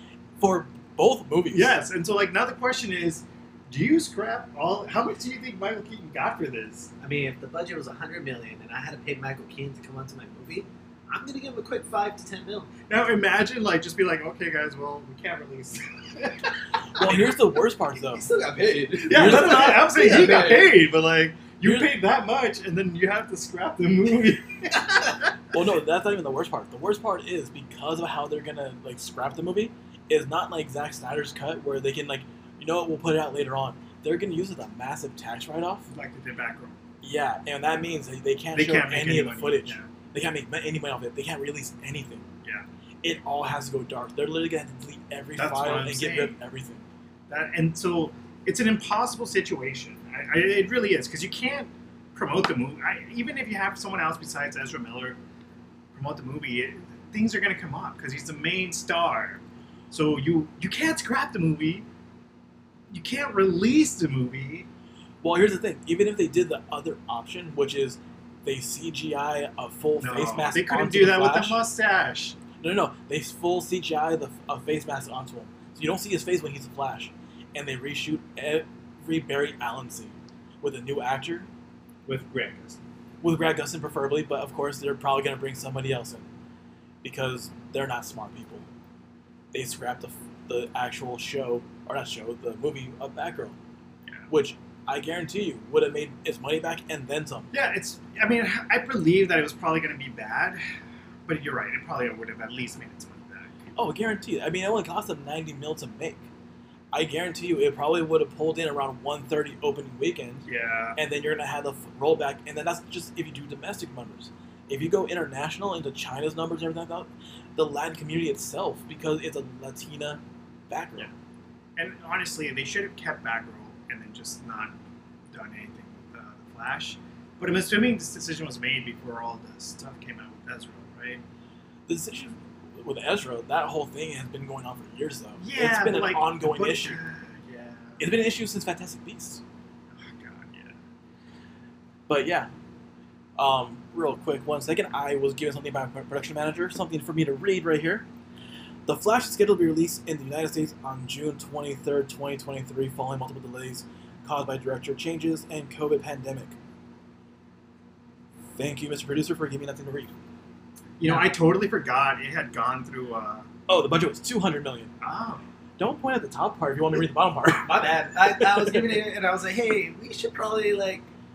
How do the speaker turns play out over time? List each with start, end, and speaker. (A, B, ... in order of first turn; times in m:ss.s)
0:00.4-0:01.7 A
0:01.5-0:06.9 B
0:07.0-0:12.7 C
0:12.9-0:17.3 B
0:17.0-0:18.2 A
0:17.9-0:20.8 C
0:19.0-0:25.2 B
0:19.1-0:19.7 A
0:21.6-0:21.9 A
0:25.5-0:35.9 A
0:35.9-0:36.8 B
0:37.0-0:42.2 A
0:38.5-0:39.9 B
0:43.0-0:46.8 A
0:45.4-0:46.4 B
0:47.3-0:55.2 B
0:55.9-1:01.8 B
1:02.9-1:04.7 B
1:05.2-1:11.6 A
1:10.0-1:12.4 B
1:12.6-1:21.5 A
1:22.0-1:22.8 B
1:23.2-1:26.2 A
1:27.0-1:28.6 A
1:29.5-1:33.6 A
1:34.3-1:37.5 A
1:37.5-1:40.6 B
1:41.2-1:43.6 B
1:43.8-1:46.3 A
1:46.9-1:50.4 A
1:50.4-1:51.0 B
1:51.0-2:01.1 A
2:01.8-2:04.7 B
2:05.3-2:11.2 B
2:11.9-2:17.0 A
2:15.4-2:18.0 B
2:18.0-2:19.4 A
2:19.9-2:20.8 B
2:22.1-2:22.5 A
2:23.4-2:28.0 A
2:28.8-2:36.5 A
2:38.6-2:40.1 A
2:41.0-2:43.4 B
2:41.0-2:41.3 C
2:43.7-2:44.9 A
2:45.0-2:45.4 B
2:45.8-2:49.0 A
2:47.6-2:51.0 C